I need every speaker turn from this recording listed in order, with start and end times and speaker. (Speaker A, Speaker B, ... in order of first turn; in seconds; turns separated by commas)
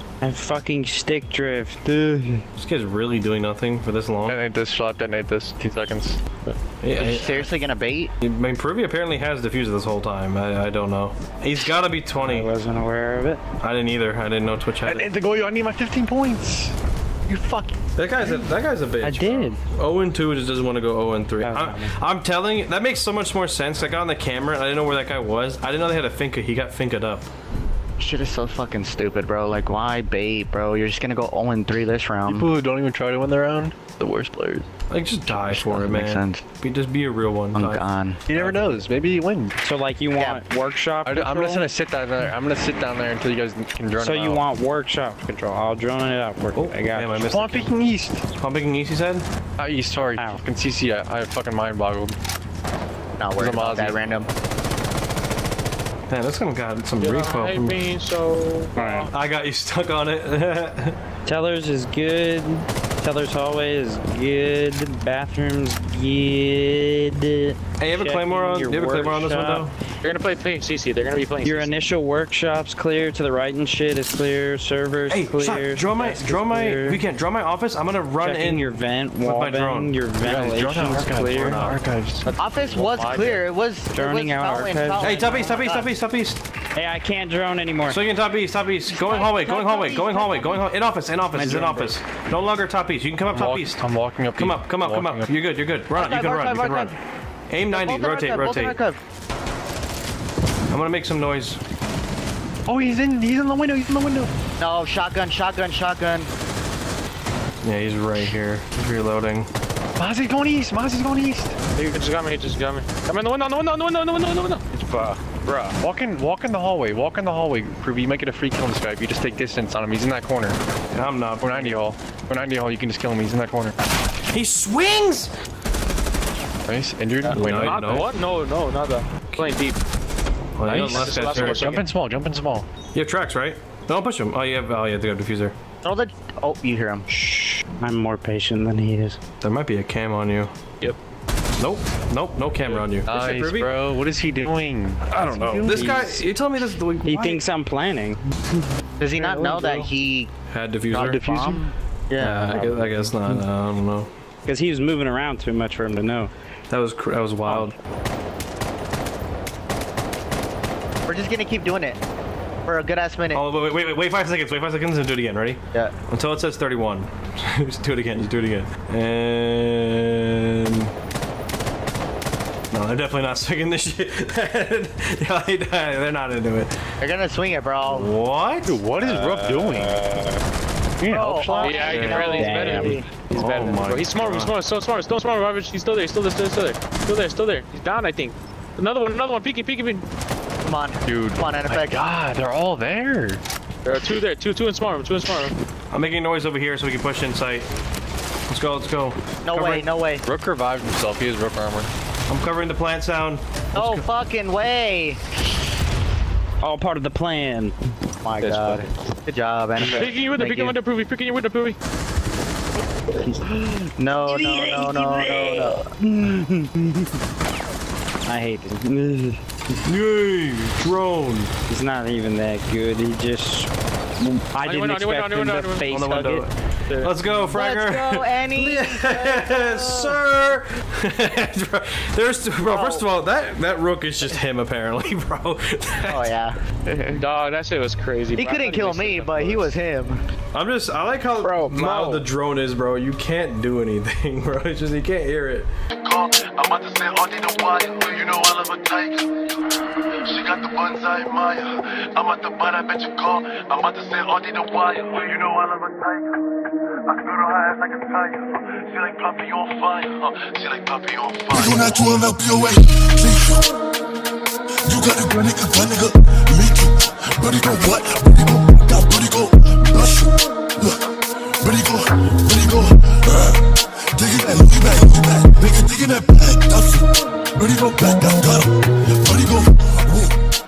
Speaker A: 0.2-2.4, Speaker B: 2.6-4.4, Speaker C: 4.2-6.5, Speaker B: 6.8-7.5, Speaker D: 7.0-8.1, Speaker B: 8.2-12.5, Speaker A: 12.2-13.4, Speaker B: 13.6-15.1, Speaker C: 14.8-16.7, Speaker C: 17.2-17.8, Speaker B: 17.9-27.3, Speaker A: 19.0-19.6, Speaker A: 21.4-21.9, Speaker D: 28.0-32.5, Speaker C: 32.2-34.7, Speaker B: 34.9-37.8, Speaker D: 35.3-36.4, Speaker D: 37.5-38.2, Speaker C: 38.3-39.5, Speaker B: 38.3-38.6, Speaker A: 39.6-41.7, Speaker D: 40.1-40.4, Speaker C: 41.0-44.4, Speaker A: 44.0-47.5, Speaker B: 46.5-47.7, Speaker C: 47.3-48.2, Speaker B: 48.4-49.2, Speaker C: 49.6-52.1, Speaker A: 50.2-50.4, Speaker D: 53.2-54.3, Speaker C: 53.4-54.0, Speaker B: 56.1-57.8, Speaker E: 57.0-59.1, Speaker A: 58.8-59.1, Speaker B: 59.1-61.0, Speaker A: 61.2-69.7, Speaker B: 67.8-69.7, Speaker E: 70.0-71.7, Speaker A: 71.4-77.0, Speaker B: 75.1-79.9, Speaker A: 78.2-81.6, Speaker C: 80.2-82.2, Speaker B: 81.1-81.8, Speaker E: 82.2-83.5, Speaker D: 82.4-85.8, Speaker A: 83.9-85.8, Speaker B: 85.0-86.4, Speaker A: 86.8-88.0, Speaker B: 87.9-93.8, Speaker D: 88.9-90.6, Speaker A: 91.3-91.9, Speaker C: 93.3-95.3, Speaker B: 94.3-96.9, Speaker D: 95.9-96.9, Speaker B: 97.5-98.8, Speaker D: 97.7-99.0, Speaker B: 100.7-101.6, Speaker C: 102.7-104.3, Speaker D: 104.6-106.3, Speaker B: 107.6-109.5, Speaker C: 110.0-111.5, Speaker E: 111.8-115.8, Speaker C: 115.8-120.6, Speaker B: 120.9-121.8, Speaker C: 121.4-123.8, Speaker B: 124.3-125.3, Speaker C: 126.6-128.1, Speaker E: 127.2-129.8, Speaker B: 127.3-128.1, Speaker B: 130.6-131.8, Speaker C: 130.7-132.7, Speaker E: 130.7-131.8, Speaker B: 132.9-135.5, Speaker D: 135.8-137.1, Speaker A: 137.1-139.2, Speaker B: 139.4-140.5, Speaker B: 141.6-143.7, Speaker C: 143.1-146.2, Speaker B: 145.1-147.4, Speaker A: 145.6-146.2, Speaker A: 147.0-148.6, Speaker D: 149.0-150.3, Speaker A: 149.2-149.8, Speaker C: 149.3-149.9, Speaker B: 150.5-151.2, Speaker D: 150.9-153.0, Speaker C: 150.9-151.7, Speaker B: 152.2-154.1, Speaker A: 154.4-156.3, Speaker B: 156.7-157.7, Speaker D: 161.1-162.0, Speaker D: 162.7-163.4, Speaker B: 163.3-170.9, Speaker B: 172.7-176.7, Speaker D: 177.0-178.1, Speaker B: 177.8-178.8, Speaker C: 178.7-180.0, Speaker A: 179.0-180.4, Speaker C: 181.0-182.2, Speaker D: 181.1-183.1, Speaker E: 181.6-190.0, Speaker B: 181.9-182.4, Speaker A: 182.3-183.0, Speaker B: 183.3-184.5, Speaker D: 190.6-192.0, Speaker C: 191.1-193.4, Speaker E: 193.8-195.5, Speaker B: 195.9-197.7, Speaker B: 198.5-199.2, Speaker D: 199.4-200.2, Speaker C: 199.5-201.9, Speaker B: 202.3-204.1, Speaker D: 203.7-205.2, Speaker A: 206.6-207.8, Speaker D: 208.2-210.8, Speaker E: 208.4-208.8, Speaker A: 209.8-210.2, Speaker E: 209.8-211.8, Speaker A: 213.2-217.1, Speaker D: 214.0-215.9, Speaker A: 218.2-219.8, Speaker B: 219.8-221.5, Speaker A: 221.7-226.4, Speaker E: 224.6-226.0, Speaker B: 225.9-236.3, Speaker E: 226.9-227.1, Speaker D: 227.5-230.2, Speaker D: 232.7-233.0, Speaker D: 236.1-236.6, Speaker E: 237.1-239.7, Speaker D: 238.3-240.2, Speaker B: 240.5-245.7, Speaker D: 241.5-242.2, Speaker F: 246.0-249.2, Speaker F: 250.3-256.1, Speaker F: 257.4-258.4, Speaker F: 259.0-262.2, Speaker G: 261.5-263.6, Speaker G: 264.9-270.9, Speaker G: 271.6-273.6, Speaker G: 274.1-280.3